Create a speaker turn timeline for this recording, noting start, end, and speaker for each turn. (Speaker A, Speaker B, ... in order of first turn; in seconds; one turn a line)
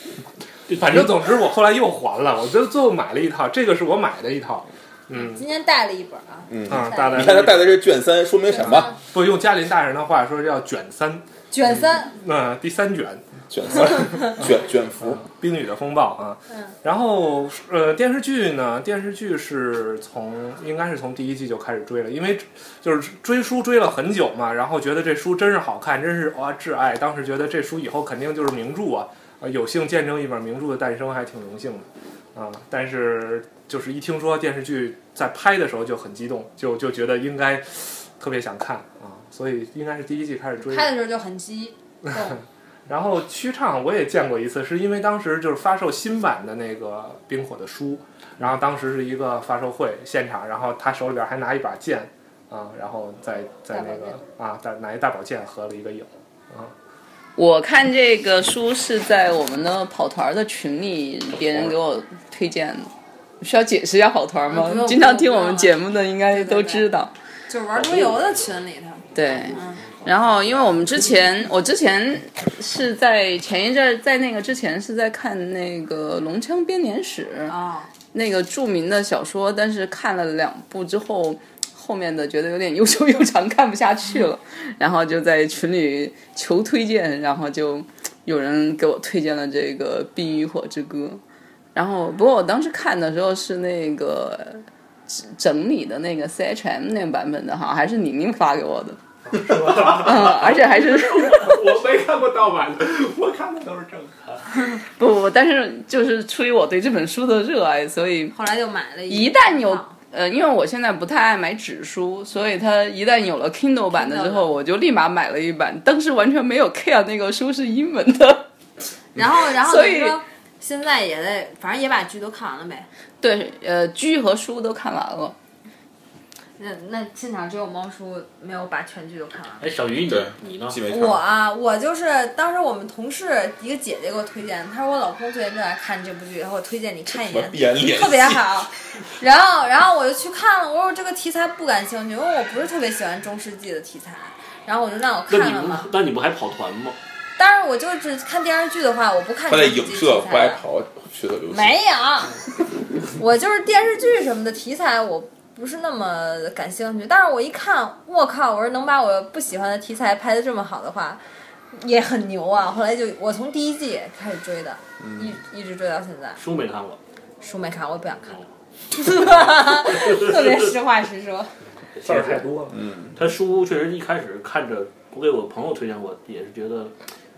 Speaker A: 0.7-1.3
Speaker B: 0.7-5.4
Speaker C: 5.1-7.4
Speaker D: 6.5-8.9
Speaker B: 6.7-7.8
Speaker C: 8.4-9.0
Speaker B: 8.9-11.2
Speaker C: 11.5-12.1
Speaker B: 11.8-14.5
Speaker D: 13.5-15.2
Speaker B: 15.0-40.9
Speaker C: 40.6-42.4
Speaker B: 42.1-56.7
Speaker C: 53.7-54.2
Speaker E: 57.4-62.9
Speaker E: 63.4-67.1
Speaker C: 64.5-66.9
Speaker C: 67.5-69.8
Speaker A: 67.7-68.5
Speaker E: 69.1-77.5
Speaker A: 69.2-71.2
Speaker C: 77.5-77.9
Speaker E: 78.1-91.2
Speaker E: 91.7-99.0
Speaker B: 99.2-104.7
Speaker E: 99.8-101.7
Speaker E: 104.8-108.3
Speaker C: 108.3-109.9
Speaker E: 109.1-118.5
Speaker C: 113.9-114.5
Speaker C: 119.1-122.9
Speaker E: 119.4-120.2
Speaker E: 123.2-125.3
Speaker C: 126.6-129.7
Speaker A: 129.6-130.8
Speaker D: 130.1-131.2
Speaker C: 130.9-145.9
Speaker D: 137.1-138.6
Speaker A: 145.3-147.0
Speaker C: 147.4-150.6
Speaker D: 149.5-151.8
Speaker C: 151.5-152.4
Speaker C: 153.2-161.2
Speaker C: 161.7-166.4
Speaker D: 165.0-165.3
Speaker A: 166.4-167.0
Speaker C: 167.4-168.3
Speaker C: 168.9-171.5
Speaker A: 169.3-170.7
Speaker A: 171.9-172.5
Speaker B: 172.0-172.8
Speaker D: 172.7-173.1
Speaker A: 173.2-176.9